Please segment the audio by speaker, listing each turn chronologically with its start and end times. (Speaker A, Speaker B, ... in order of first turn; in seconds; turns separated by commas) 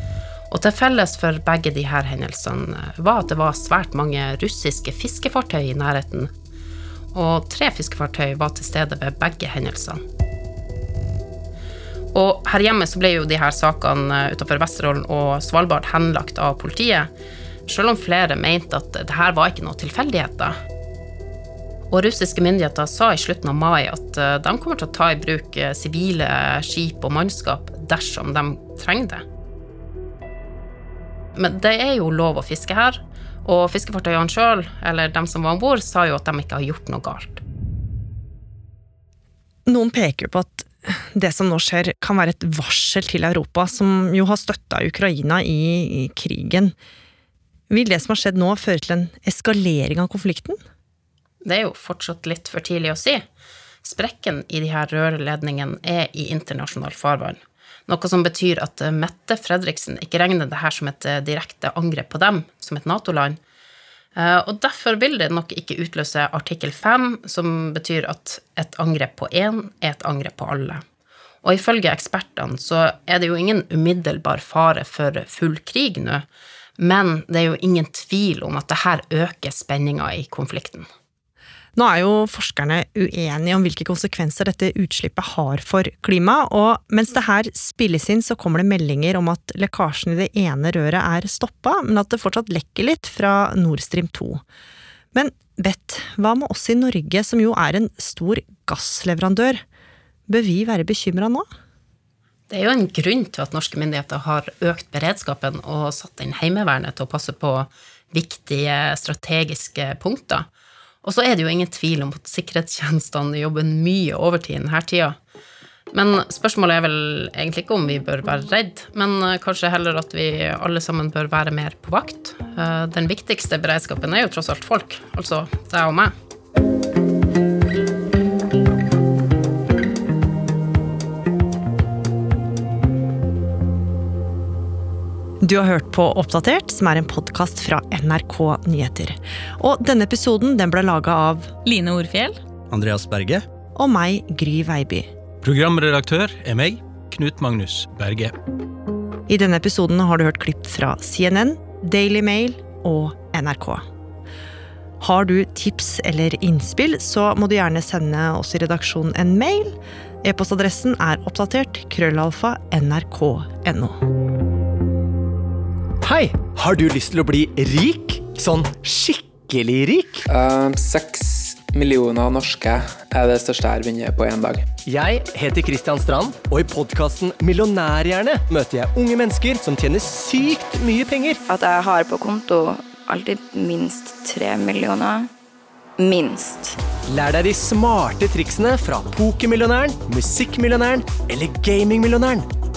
Speaker A: 0.5-6.3, Speaker A: 7.1-10.0, Speaker A: 12.1-17.1, Speaker A: 17.6-20.5, Speaker A: 21.9-29.2, Speaker A: 31.3-37.4, Speaker B: 39.7-46.7, Speaker B: 47.7-50.6, Speaker A: 51.4-53.2, Speaker A: 53.8-63.4, Speaker A: 64.2-70.8, Speaker A: 71.4-76.2, Speaker A: 76.8-80.9, Speaker B: 81.8-94.4, Speaker B: 95.1-99.6, Speaker B: 100.3-101.5, Speaker A: 102.5-110.5, Speaker A: 111.0-115.2, Speaker A: 115.9-126.1, Speaker B: 135.4-141.5, Speaker C: 142.7-143.4, Speaker D: 142.8-143.1, Speaker B: 143.7-145.1, Speaker C: 145.4-148.3, Speaker B: 149.3-153.8, Speaker B: 155.0-164.0, Speaker D: 166.0-170.2, Speaker E: 170.3-174.6, Speaker D: 174.8-181.4, Speaker F: 181.5-185.3, Speaker F: 186.0-186.8, Speaker D: 187.1-192.5